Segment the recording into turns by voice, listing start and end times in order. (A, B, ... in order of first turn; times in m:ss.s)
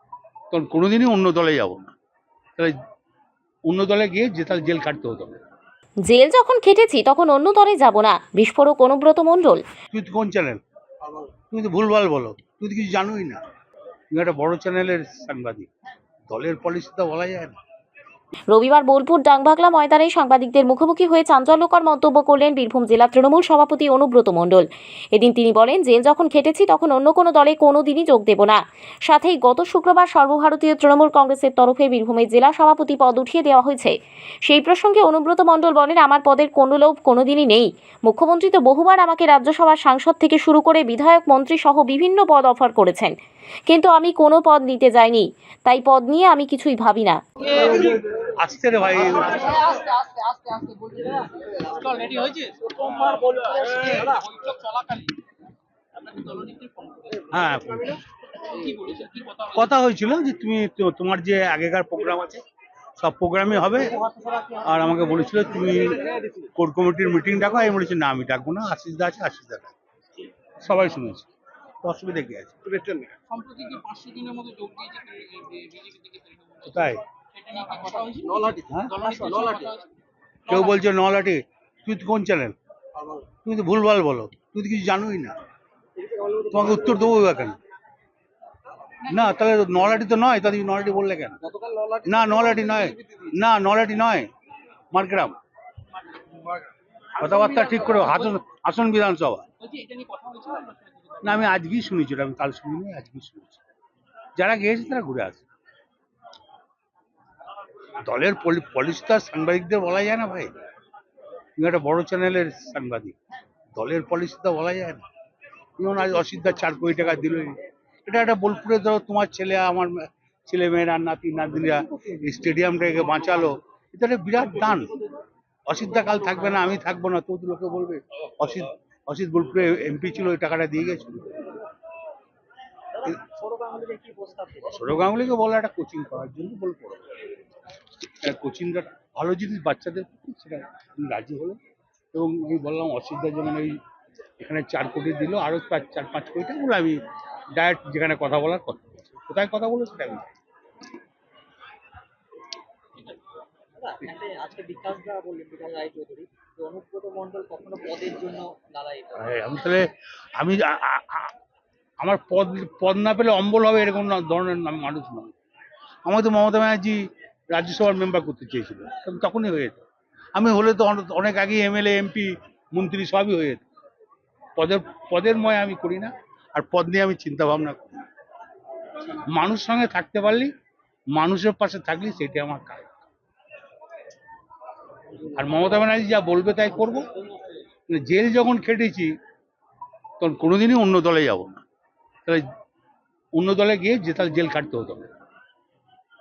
0:00.5-0:01.9 A
0:03.7-0:05.4 A
0:06.0-0:09.6 B
0:09.9-0:10.6 A
0:11.5-0:13.4 A
0:14.1-0:15.7 A
0:16.3-0:17.6 A
0:18.5-0:33.9 B
0:34.4-0:43.1 B
0:43.7-0:47.2 B
0:47.7-0:49.6 A
0:50.2-0:51.2 C
0:51.5-0:55.2 D
0:55.9-0:57.3 D
0:57.3-0:58.0 A
0:58.4-0:59.7 D
0:59.5-1:02.4 A
1:03.0-1:09.7 A
1:10.6-1:11.3 A
1:11.8-1:12.8 A
1:12.9-1:19.9 D
1:16.6-1:17.0 A
1:18.7-1:18.9 A
1:20.5-1:22.6 A
1:20.5-1:20.8 D
1:23.4-1:25.4 A
1:26.4-1:27.6 A
1:29.0-1:31.4 A
1:31.6-1:31.9 D
1:32.0-1:34.3 A
1:34.9-1:35.4 A
1:37.2-1:39.4 A
1:37.4-1:38.3 D
1:39.6-1:41.3 D
1:41.2-1:43.6 A
1:44.4-1:45.4 A
1:48.0-1:50.5 A
1:51.6-1:53.2 A
1:53.7-1:55.0 A
1:55.8-2:04.9 A
2:05.7-2:11.5 A
2:13.0-2:14.9 C
2:14.7-2:17.0 A
2:18.2-2:21.6 A
2:22.1-2:23.8 A
2:24.4-2:27.0 A
2:27.6-2:30.3 A
2:33.8-2:39.3 C
2:39.2-2:41.3 A
2:42.0-2:45.3 A
2:46.0-2:49.8 A
2:50.4-2:53.6 A
2:54.6-2:58.0 A
2:59.2-3:00.5 A
3:01.1-3:02.9 A
3:05.2-3:07.1 A
3:07.9-3:09.1 A
3:10.2-3:11.6 A
3:13.3-3:15.1 A